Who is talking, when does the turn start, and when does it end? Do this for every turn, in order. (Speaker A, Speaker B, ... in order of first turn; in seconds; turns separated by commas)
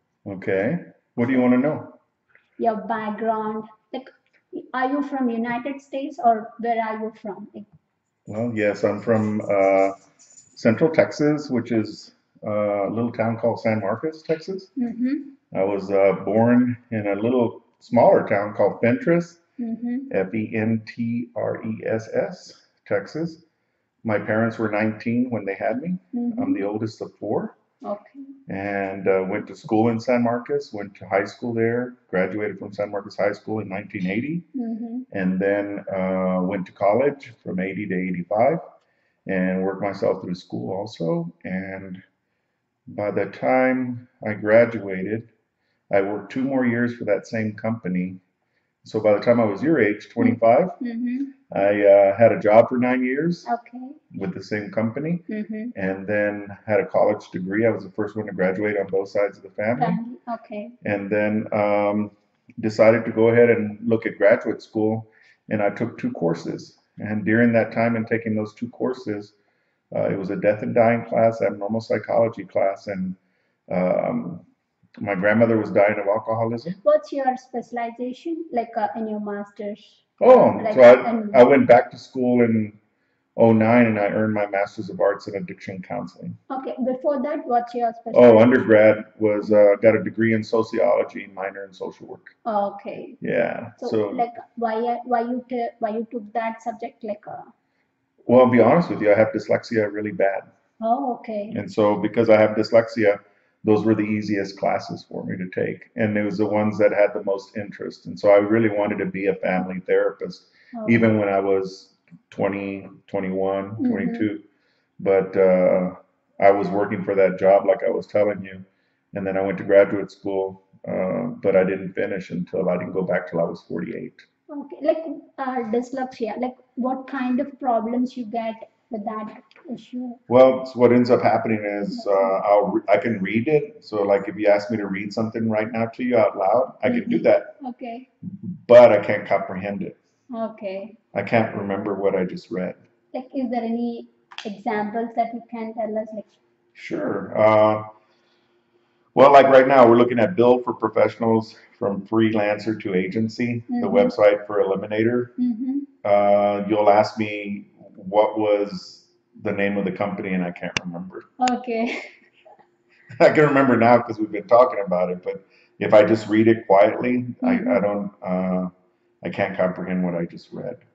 Speaker A: 0.2-1.9, Speaker B: 2.6-7.7, Speaker A: 8.3-9.9, Speaker A: 10.5-14.7, Speaker B: 14.8-15.3, Speaker A: 15.5-19.4, Speaker B: 19.6-20.1, Speaker A: 20.1-23.4, Speaker A: 24.0-27.6, Speaker B: 26.1-26.6, Speaker B: 27.8-28.3, Speaker A: 28.5-34.5, Speaker B: 34.5-35.1, Speaker A: 35.1-38.6, Speaker A: 39.2-42.0, Speaker A: 42.9-45.3, Speaker A: 45.9-48.2, Speaker A: 48.8-50.8, Speaker B: 50.2-51.4, Speaker A: 51.5-53.5, Speaker B: 53.4-54.0, Speaker A: 54.1-60.0, Speaker B: 55.3-55.7, Speaker B: 59.8-60.8, Speaker A: 60.8-69.3, Speaker A: 69.9-73.2, Speaker A: 73.7-74.4, Speaker A: 75.0-76.8, Speaker B: 76.8-81.4, Speaker A: 80.2-82.8, Speaker A: 83.3-86.4, Speaker B: 86.5-88.7, Speaker A: 88.1-92.3, Speaker B: 92.4-93.2, Speaker A: 93.2-94.2, Speaker B: 93.8-97.5, Speaker A: 98.2-100.5, Speaker B: 100.8-101.6, Speaker A: 101.5-114.4, Speaker B: 110.7-111.1, Speaker B: 113.8-114.3, Speaker A: 115.0-124.2, Speaker B: 124.5-130.2, Speaker A: 130.3-137.5, Speaker B: 131.9-132.4, Speaker B: 136.8-138.1, Speaker A: 138.2-140.0, Speaker B: 140.3-141.0, Speaker A: 141.1-142.8, Speaker B: 143.1-146.3, Speaker A: 146.7-147.9, Speaker A: 149.1-155.3, Speaker B: 153.7-154.1, Speaker B: 155.4-155.9, Speaker A: 156.0-161.3, Speaker B: 161.4-162.1, Speaker A: 163.2-168.7, Speaker B: 167.4-167.8, Speaker A: 169.2-170.8